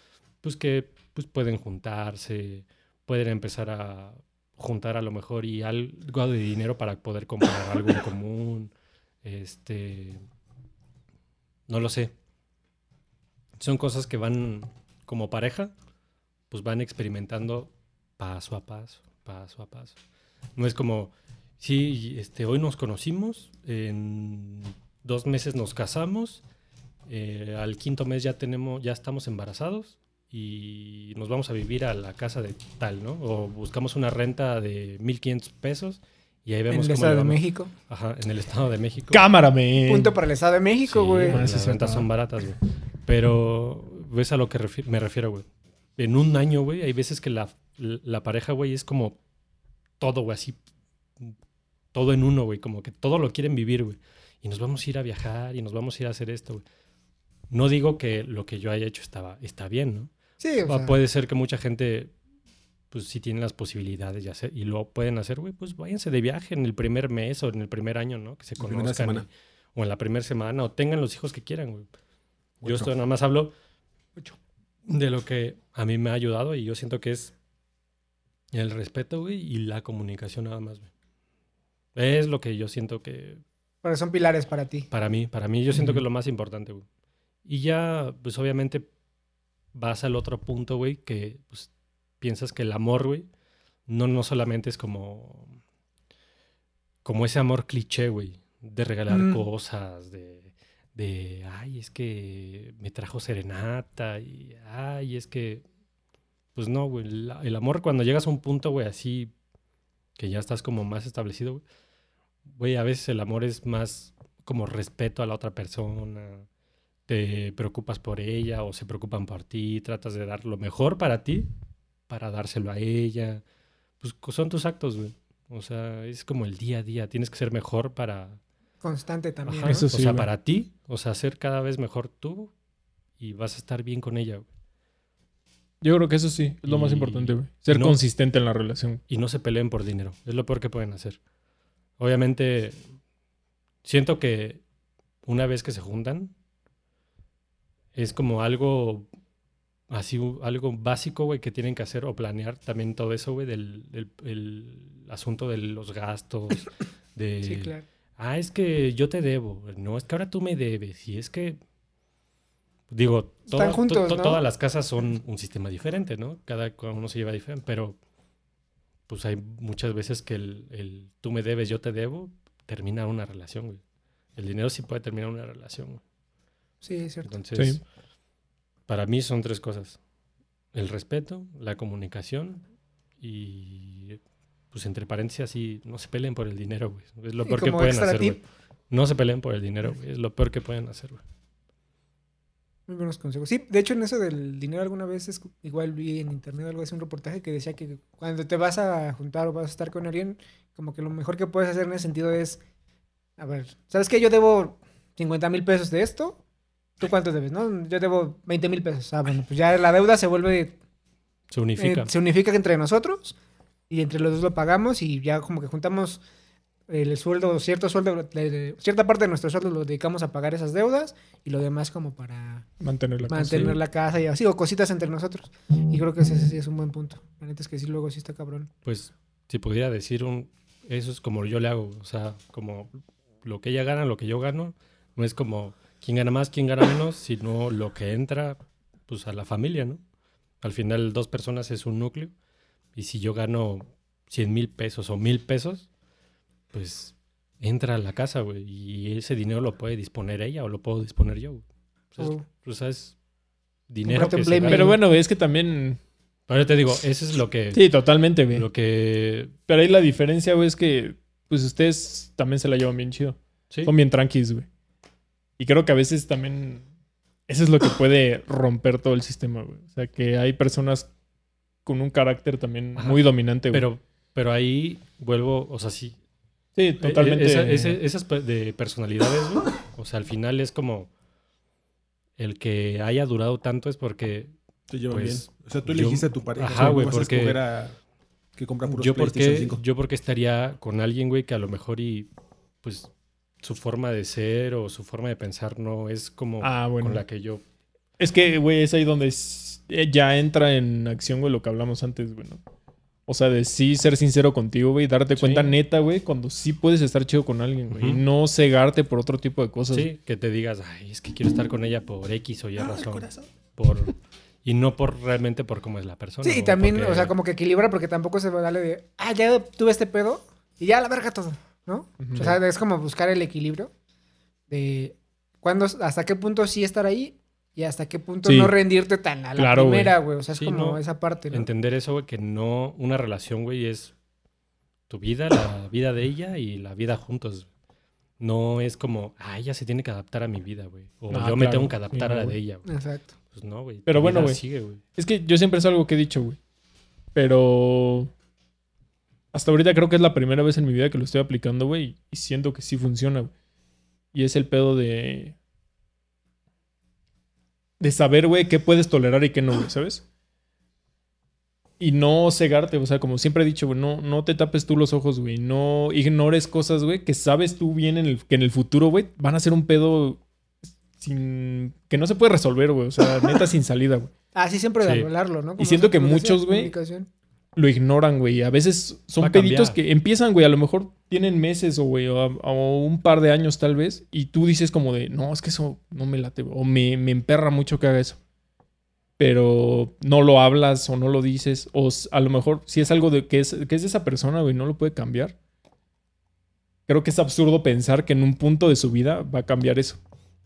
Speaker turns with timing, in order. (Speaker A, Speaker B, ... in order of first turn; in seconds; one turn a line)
Speaker A: 0.4-8.7
Speaker A: 9.2-10.2
Speaker A: 11.7-12.1
Speaker A: 13.6-15.7
Speaker A: 16.5-20.0
Speaker A: 20.6-26.4
Speaker A: 27.1-39.2
Speaker B: 36.7-37.7
Speaker C: 39.1-40.1
Speaker B: 39.8-41.4
Speaker A: 40.9-45.4
Speaker C: 41.3-42.1
Speaker A: 46.0-49.2
Speaker A: 50.0-50.6
Speaker A: 51.9-56.6
Speaker A: 57.5-60.1
Speaker B: 60.4-61.0
Speaker A: 60.6-62.1
Speaker A: 62.9-71.9
Speaker D: 68.6-69.2
Speaker A: 72.6-73.5
Speaker D: 72.6-72.9
Speaker A: 74.9-77.3
Speaker A: 78.5-80.9
Speaker A: 81.9-83.4
Speaker B: 83.8-84.9
Speaker A: 84.9-86.8
Speaker C: 85.7-86.0
Speaker A: 87.4-88.9
Speaker A: 89.7-93.3
Speaker A: 93.9-95.5
Speaker A: 97.0-105.6
Speaker B: 99.1-99.4
Speaker A: 106.5-109.3
Speaker A: 110.2-111.6
Speaker A: 112.5-116.4
Speaker A: 117.1-121.5
Speaker A: 122.1-123.4
Speaker A: 124.0-128.4
Speaker B: 128.8-129.9
Speaker A: 129.5-132.5
Speaker C: 129.6-130.3
Speaker A: 133.2-134.4
Speaker C: 135.8-139.0
Speaker A: 136.7-138.0
Speaker A: 139.1-141.2
Speaker A: 142.0-142.8
Speaker A: 143.8-144.6
Speaker A: 145.2-146.3
Speaker A: 147.9-149.1
Speaker A: 149.9-161.6
Speaker B: 157.4-157.8
Speaker A: 162.9-168.0
Speaker B: 163.5-164.4
Speaker A: 169.1-173.8
Speaker A: 174.4-176.0
Speaker B: 176.8-177.3
Speaker A: 177.2-177.8
Speaker C: 177.5-177.8
Speaker A: 178.9-180.0
Speaker A: 180.7-182.6
Speaker A: 183.2-184.2
Speaker A: 184.7-191.2
Speaker B: 187.4-188.4
Speaker B: 192.9-202.6
Speaker B: 203.4-206.4
Speaker B: 207.0-210.8
Speaker A: 211.5-212.1
Speaker B: 211.8-213.4
Speaker B: 213.9-216.2
Speaker B: 216.9-222.7
Speaker C: 222.8-223.8
Speaker B: 223.2-228.7
Speaker A: 228.8-232.9
Speaker A: 233.4-240.0
Speaker A: 240.6-242.3
Speaker A: 242.9-245.9
Speaker A: 246.7-251.6
Speaker A: 252.1-253.1
Speaker B: 252.2-252.4
Speaker A: 253.9-254.9
Speaker B: 254.0-255.0
Speaker C: 254.7-256.0
Speaker A: 256.5-257.9
Speaker C: 257.7-258.7
Speaker A: 258.5-259.6
Speaker C: 259.6-264.7
Speaker C: 265.6-266.8
Speaker C: 267.5-271.1
Speaker C: 271.8-273.9
Speaker A: 272.9-276.1
Speaker C: 276.8-278.0
Speaker A: 277.0-281.1
Speaker A: 282.4-284.5
Speaker D: 284.9-288.0
Speaker A: 285.1-287.6
Speaker D: 288.6-289.8
Speaker A: 288.9-292.3
Speaker A: 292.8-293.1
Speaker A: 293.6-297.6
Speaker C: 296.6-297.2
Speaker C: 298.2-302.6
Speaker C: 303.3-310.1
Speaker A: 305.3-305.7
Speaker A: 307.9-308.2
Speaker A: 309.9-317.3
Speaker D: 312.8-313.5
Speaker B: 316.4-323.9
Speaker C: 322.2-322.6
Speaker B: 324.7-331.7
Speaker C: 328.4-328.8
Speaker C: 329.6-330.1
Speaker A: 330.6-334.1
Speaker A: 335.1-337.7
Speaker A: 338.4-342.9
Speaker C: 341.3-342.6
Speaker B: 342.9-343.3
Speaker A: 343.5-345.0
Speaker C: 344.1-344.6
Speaker C: 345.1-346.6
Speaker C: 347.3-348.3
Speaker C: 349.5-353.5
Speaker C: 354.3-355.5
Speaker C: 358.0-360.2
Speaker C: 362.0-370.4
Speaker C: 371.2-374.3
Speaker B: 374.5-377.3
Speaker A: 375.0-375.3
Speaker C: 375.8-376.9
Speaker C: 377.8-388.4
Speaker A: 379.4-380.0
Speaker C: 389.4-395.5
Speaker C: 397.1-400.2